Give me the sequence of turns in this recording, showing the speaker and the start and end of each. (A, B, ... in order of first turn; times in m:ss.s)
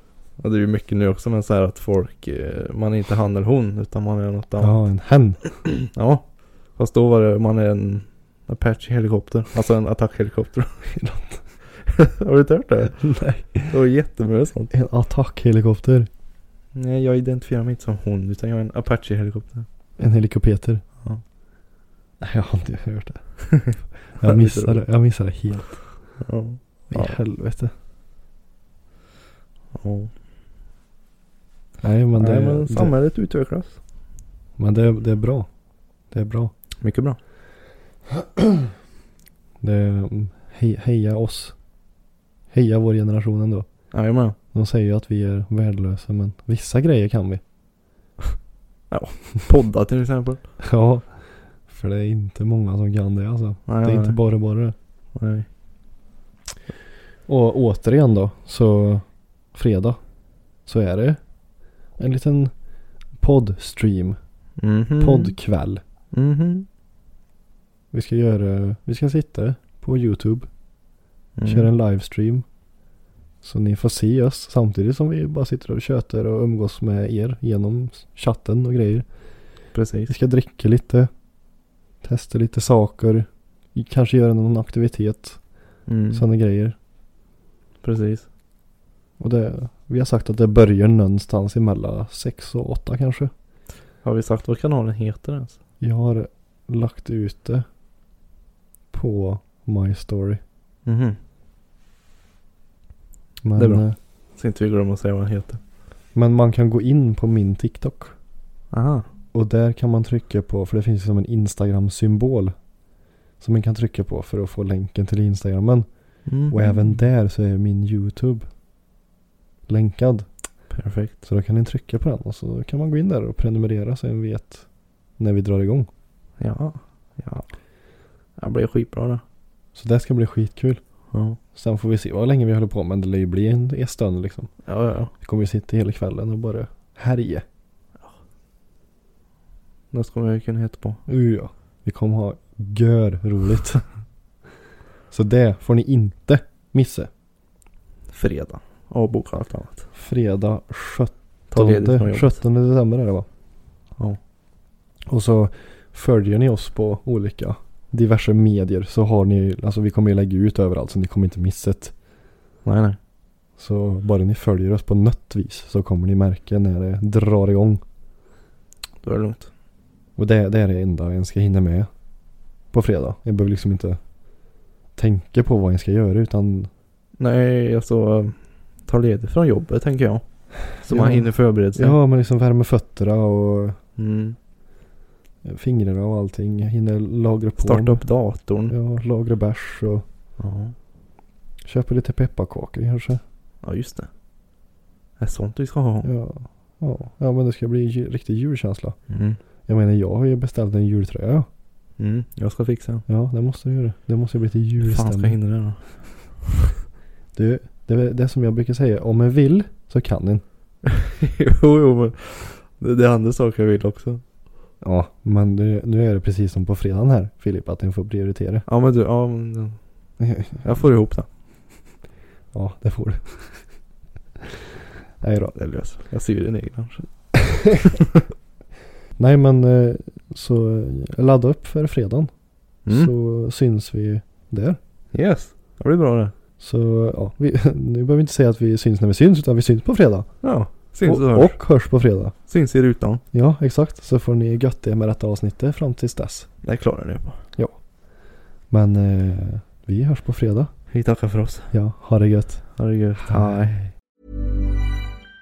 0:00.4-0:04.8 A
0:04.6-0:05.6 B
0:05.9-0:10.7 A
0:10.9-0:11.4 B
0:11.6-0:14.7 A
0:13.0-0:13.8 B
0:14.7-0:16.1 B
0:16.8-0:19.7 A
0:20.0-0:20.8 B
0:22.2-0:25.8 B
0:23.4-0:24.8 A
0:26.2-0:27.2 A
0:26.9-0:27.7 B
0:29.8-0:30.1 A
0:31.8-0:32.9 B
0:32.2-0:33.8 A
0:34.6-0:35.5 B
0:36.1-0:36.5 B
0:36.8-0:37.2 A
0:39.6-0:41.6 B
0:42.5-0:43.7 B
0:43.9-0:44.4 A
0:44.5-0:47.4 B
0:48.9-0:50.4 A
0:50.6-0:54.8 B
0:53.7-0:54.2 A
0:55.2-0:55.5 A
0:57.3-1:00.0 B
1:00.6-1:01.2 B
1:02.0-1:02.5 B
1:03.2-1:04.2 B
1:04.6-1:05.4 A
1:05.0-1:05.8 B
1:06.1-1:06.7 A
1:07.9-1:10.5 B
1:11.4-1:11.7 A
1:11.4-1:12.5 B
1:13.4-1:19.1 B
1:19.7-1:20.1 A
1:20.1-1:21.1 B
1:22.0-1:25.4 B
1:25.9-1:26.2 A
1:26.1-1:26.8 B
1:27.8-1:28.3 A
1:29.2-1:33.3 B
1:34.0-1:35.6 A
1:35.8-1:37.6 B
1:38.9-1:40.4 B
1:40.9-1:41.2 A
1:43.4-1:44.0 B
1:43.6-1:45.6 A
1:46.1-1:48.2 B
1:48.7-1:49.1 A
1:49.3-1:52.6 B
1:53.4-1:58.5 B
1:56.3-1:56.8 A
1:59.7-2:00.3 B
2:00.7-2:01.2 A
2:01.2-2:04.7 B
2:05.2-2:05.9 B
2:06.4-2:07.5 A
2:08.4-2:09.2 A
2:09.8-2:10.8 B
2:11.1-2:11.4 A
2:11.5-2:14.5 B
2:14.7-2:15.1 A
2:15.1-2:17.4 B
2:19.9-2:21.0 A
2:21.1-2:23.8 B
2:25.1-2:27.1 B
2:28.1-2:29.9 A
2:30.0-2:33.3 B
2:31.5-2:32.4 A
2:35.1-2:41.9 B
2:42.6-2:43.0 A
2:43.6-2:47.8 B
2:49.0-2:49.5 A
2:50.2-2:51.9 B
2:52.7-2:54.0 B
2:55.0-2:56.7 B
2:57.2-3:02.0 A
3:00.8-3:03.8 B
3:04.0-3:04.4 A
3:05.4-3:08.0 B
3:07.6-3:08.7 A
3:08.7-3:10.0 B
3:10.4-3:10.8 A
3:11.6-3:13.2 B
3:13.6-3:14.1 A
3:15.2-3:16.1 A
3:16.0-3:19.0 B
3:19.1-3:19.4 A
3:19.7-3:21.5 B
3:22.0-3:23.0 A
3:23.1-3:25.4 B
3:24.8-3:25.9 A
3:27.3-3:30.4 B
3:30.9-3:34.2 A
3:34.8-3:38.6 B
3:38.7-3:39.8 A
3:40.2-3:40.6 B
3:40.6-3:41.3 A
3:42.5-3:43.6 B
3:45.2-3:45.5 B
3:45.6-3:47.1 A
3:47.4-3:47.8 B
3:49.2-3:52.3 B
3:52.9-3:53.1 A
3:52.9-3:54.8 B
3:55.1-3:56.3 A
3:56.6-4:00.3 B
4:00.4-4:01.6 A
4:01.1-4:02.4 B
4:02.5-4:03.2 A
4:03.3-4:06.5 B
4:06.6-4:07.4 A
4:08.7-4:10.7 B
4:10.9-4:11.7 A
4:11.7-4:13.9 B
4:12.8-4:13.8 A